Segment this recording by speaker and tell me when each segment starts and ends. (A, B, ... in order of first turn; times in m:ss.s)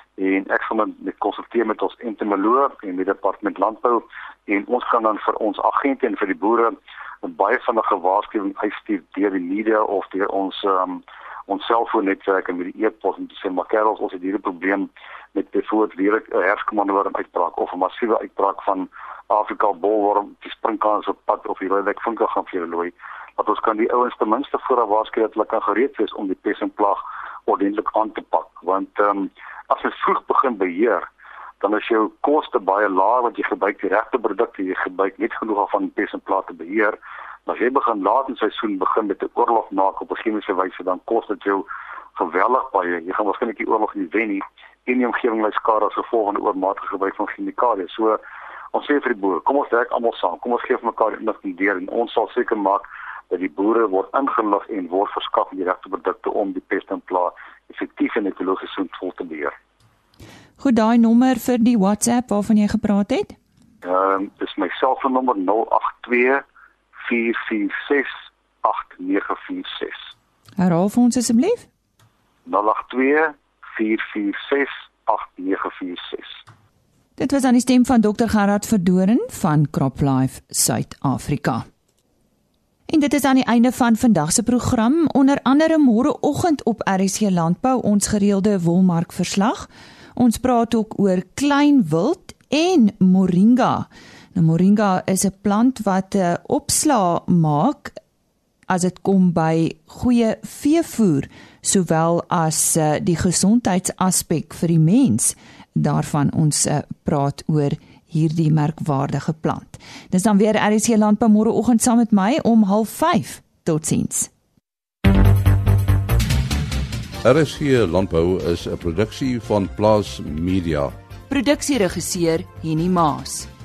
0:00.2-0:31.1 A
0:31.6-0:48.2 A
0:48.7-0:59.6 A
1:00.6-1:03.4 B
1:03.8-1:06.4 A
1:07.0-1:10.1 A
1:10.6-1:11.7 B
1:12.5-1:16.4 A
1:17.2-1:21.7 B
1:22.9-1:38.0 B
1:38.7-1:54.3 B
1:57.2-2:00.9 C
2:01.3-2:03.5 B